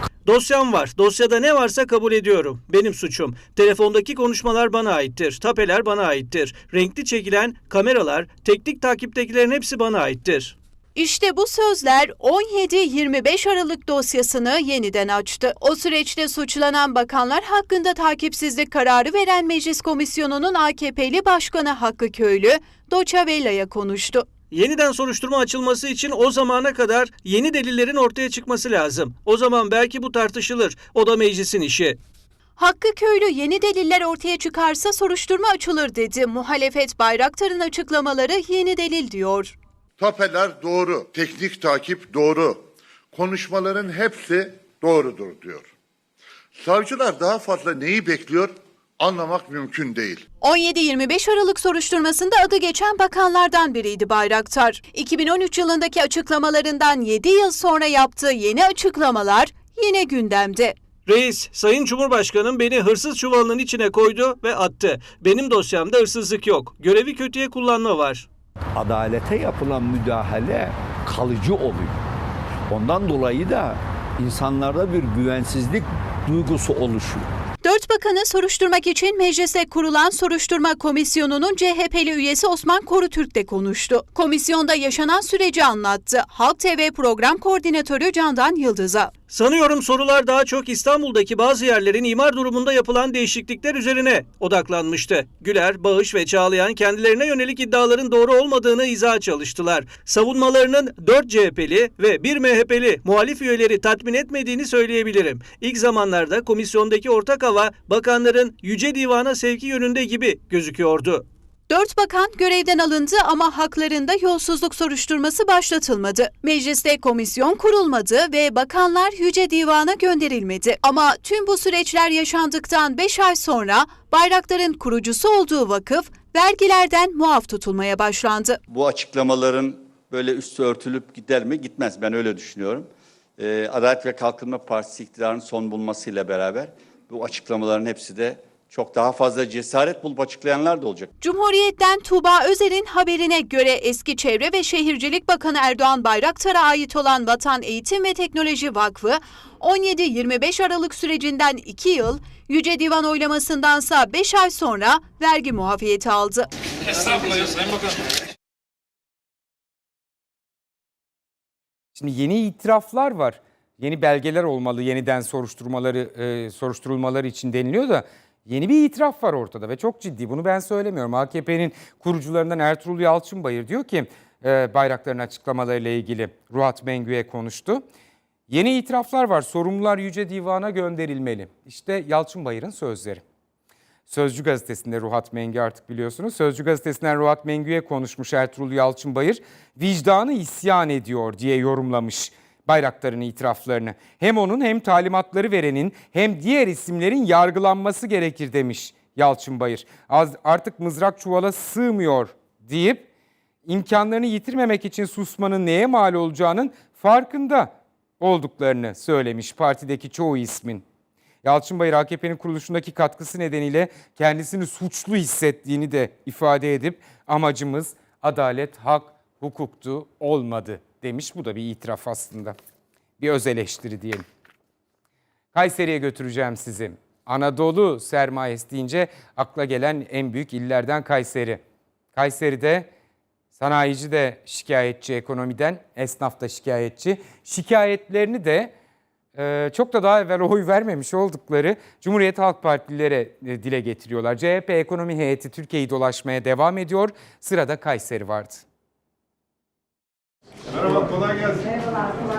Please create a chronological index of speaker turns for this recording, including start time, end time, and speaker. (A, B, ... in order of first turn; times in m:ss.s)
0:00.2-0:10.6 A
0:10.9-0:24.2 B
0:24.5-0:32.0 A
0:32.6-0:39.5 B
0:40.0-0:42.6 C
0:43.1-0:45.6 C
0:46.6-0:50.2 C
0:50.4-1:00.7 B
1:01.1-1:08.3 A
1:08.7-1:12.0 D
1:12.7-1:17.3 D
1:17.6-1:29.1 B
1:29.3-1:51.2 A
1:51.7-2:08.6 B
2:08.7-2:21.1 E
2:21.2-2:36.5 B
2:41.9-2:57.8 F
2:58.5-3:03.2 F
3:04.1-3:23.1 F
3:23.6-3:30.8 F
3:31.4-3:42.6 F
3:43.2-3:44.2 F
3:45.5-3:51.6 F
3:52.1-3:52.9 F
3:53.5-3:58.7 F
3:59.3-4:08.6 F